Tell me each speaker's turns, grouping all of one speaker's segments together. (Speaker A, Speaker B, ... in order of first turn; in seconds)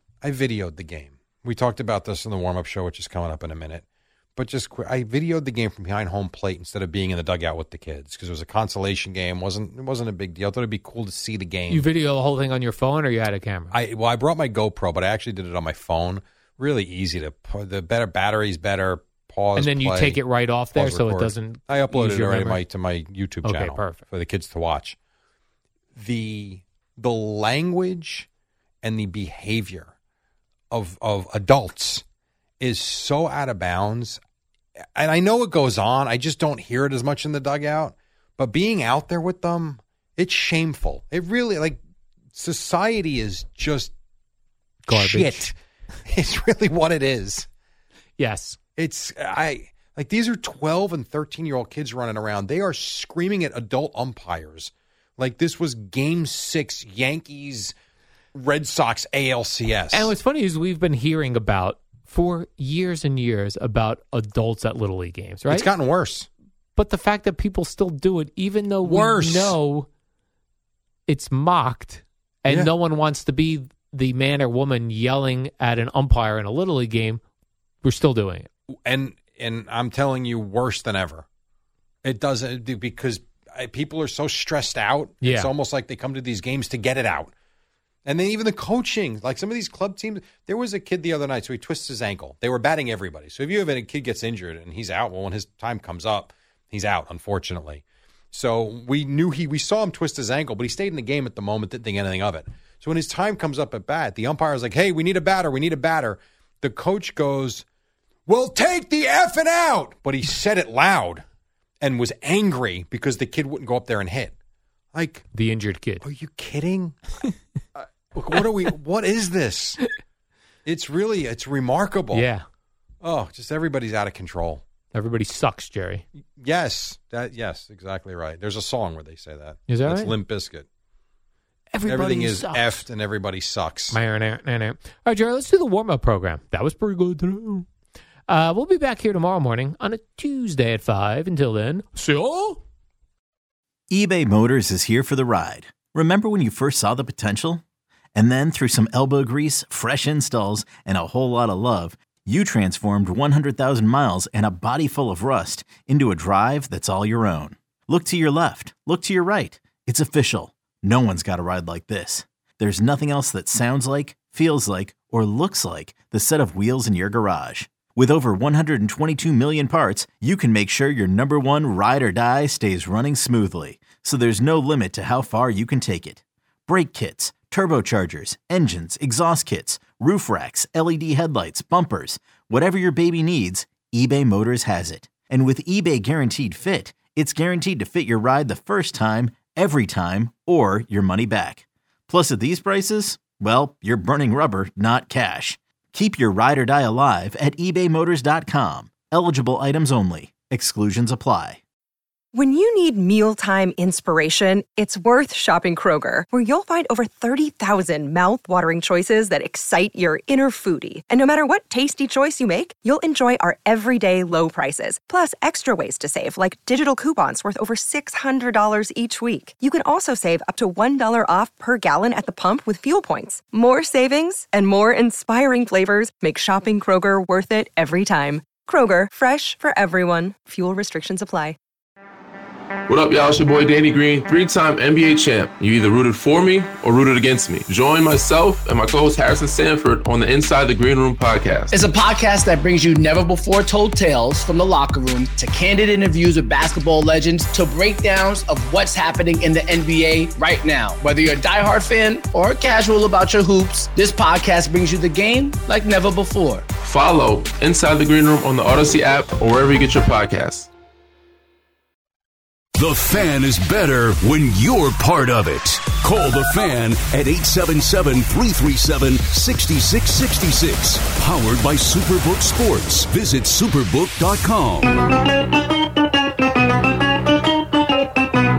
Speaker A: 0.2-3.8, 4.3-11.8, 13.7-20.2, 20.7-24.9, 25.9-28.3, 28.8-29.9, 30.7-32.0, 32.6-34.2, 35.0-41.8, 42.3-43.9, 44.9-45.5, 46.0-47.5, 48.8-57.7, 58.3-60.1, 65.5-66.3, 68.8-69.5, 78.8-81.2, 82.0-87.3, 88.0-107.6, 108.3-111.2, 111.8-114.3, 114.9-115.2, 116.0-117.0, 117.8-119.8, 120.7-122.2, 123.0-124.6, 126.4-130.7, 131.9-134.0
Speaker B: 11.7-13.7, 19.6-22.6, 23.4-24.0, 44.9-45.5, 48.2-48.6, 59.9-65.7, 66.8-69.9, 71.1-77.2, 77.8-78.5, 85.2-85.5, 115.3-116.0, 122.1-122.4, 124.9-126.0, 129.7-130.1, 131.7-132.8, 133.9-137.7, 138.3-142.6
Speaker C: 143.9-147.6, 148.1-201.6
Speaker D: 202.3-231.6
Speaker E: 232.9-241.8, 256.8-260.7
Speaker F: 241.7-256.6
Speaker G: 262.8-275.0